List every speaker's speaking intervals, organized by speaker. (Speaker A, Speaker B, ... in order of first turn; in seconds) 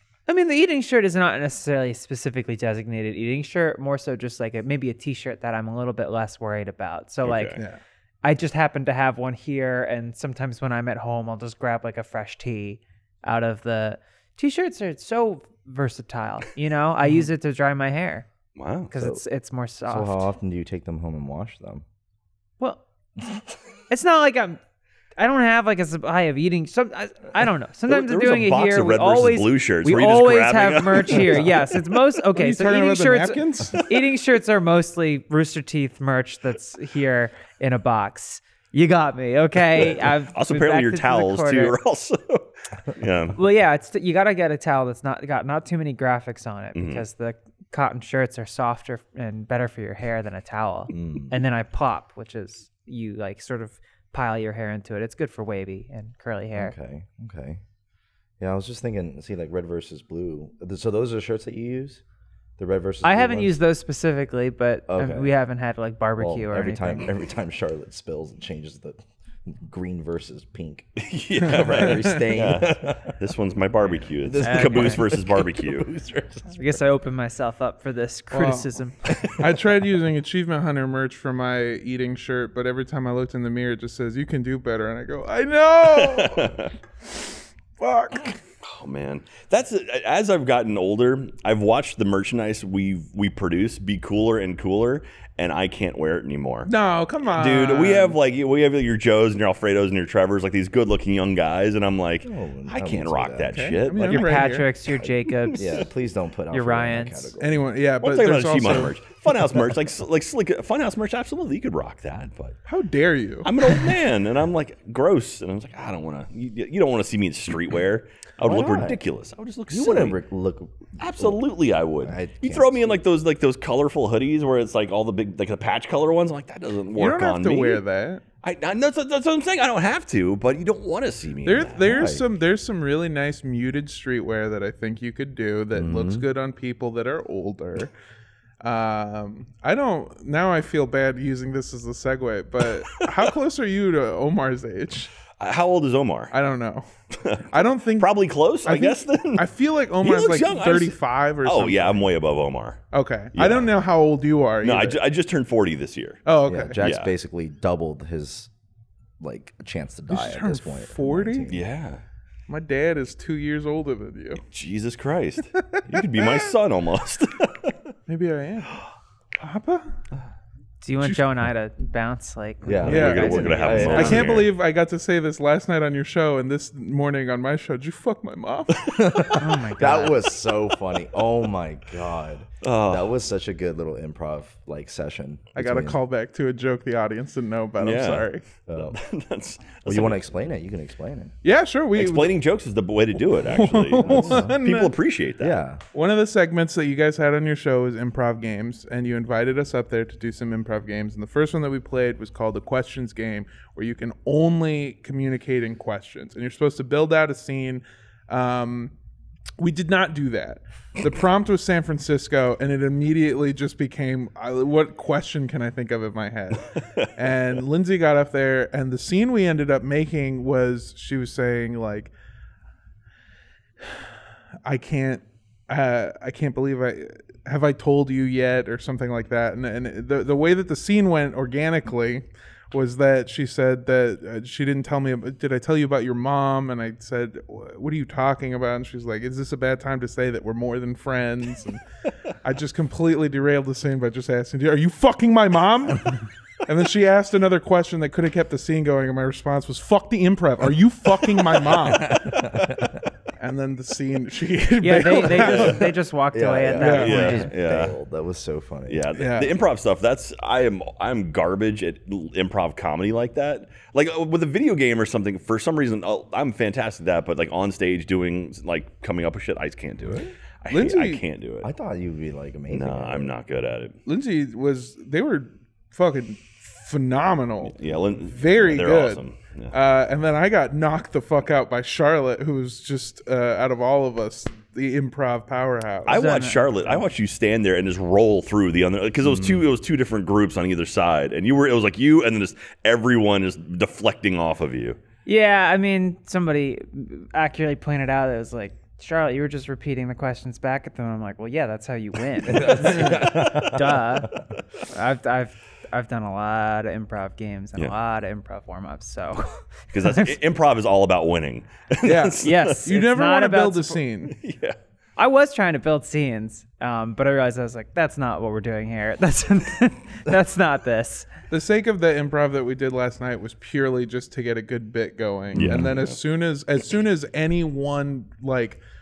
Speaker A: 0.3-7.6, 8.2-18.3, 18.9-20.3, 23.9-24.6, 25.2-41.8, 43.3-56.7, 63.0-67.0, 74.4-75.1, 76.6-79.0, 104.0-105.8, 106.5-107.3, 170.8-174.1, 179.4-180.3, 254.8-257.5, 286.1-287.0, 295.2-310.3, 312.4-314.0, 315.2-321.3
Speaker B: 7.2-7.6, 18.6-18.9, 27.9-31.9, 33.8-34.0, 39.8-43.4, 46.8-47.0, 71.0-75.9, 85.9-86.7, 88.6-96.7, 97.3-104.4, 108.0-112.6, 113.4-120.2, 121.0-127.8, 128.4-132.1, 145.4-146.3, 147.2-147.5, 148.0-149.5, 150.0-152.8, 153.3-153.7, 154.6-156.2, 156.8-157.1, 161.5-162.0, 164.5-167.8, 172.7-174.5, 182.6-183.2, 187.8-190.2, 192.0-195.6, 251.6-252.6, 255.3-255.9, 256.8-258.0, 258.9-271.7, 272.7-274.0, 277.7-279.7, 286.1-295.0, 302.5-304.0, 309.9-313.0, 314.4-314.8, 325.5-326.2
Speaker C: 18.9-19.2, 19.9-21.8, 50.9-51.4, 56.6-57.6, 58.4-62.0, 62.6-63.6, 64.9-65.3, 66.2-73.2, 74.2-76.8, 102.2-103.8, 104.9-107.6, 118.4-119.0, 119.7-121.4, 122.0-123.0, 131.9-132.2, 135.7-136.2, 156.5-158.5, 159.2-161.7, 172.7-174.4, 178.9-186.0, 188.7-189.0, 189.9-191.3, 194.0-194.6, 195.4-195.8, 252.0-253.1, 256.3-259.1, 270.1-270.3, 271.6-273.3, 289.3-289.6, 302.5-303.8, 325.6-325.9
Speaker D: 32.4-33.8, 71.5-72.2, 78.3-78.7, 79.3-86.6, 87.8-88.4, 96.7-98.2, 103.5-104.7, 107.4-108.9, 112.7-113.5, 127.0-128.2, 131.4-137.9, 138.6-145.1, 146.3-146.9, 147.5-148.1, 148.7-152.1, 152.9-155.0, 156.3-156.8, 160.1-161.5, 162.5-164.4, 165.6-166.3, 168.1-168.7, 169.4-169.9, 172.9-179.3, 185.6-188.4, 191.4-192.3, 193.4-194.9, 195.9-208.9, 209.6-222.1, 224.7-241.8, 242.4-252.3, 253.4-255.8, 256.8-257.2, 259.1-259.5, 270.7-271.2, 274.1-286.2, 312.0-314.4, 321.5-328.8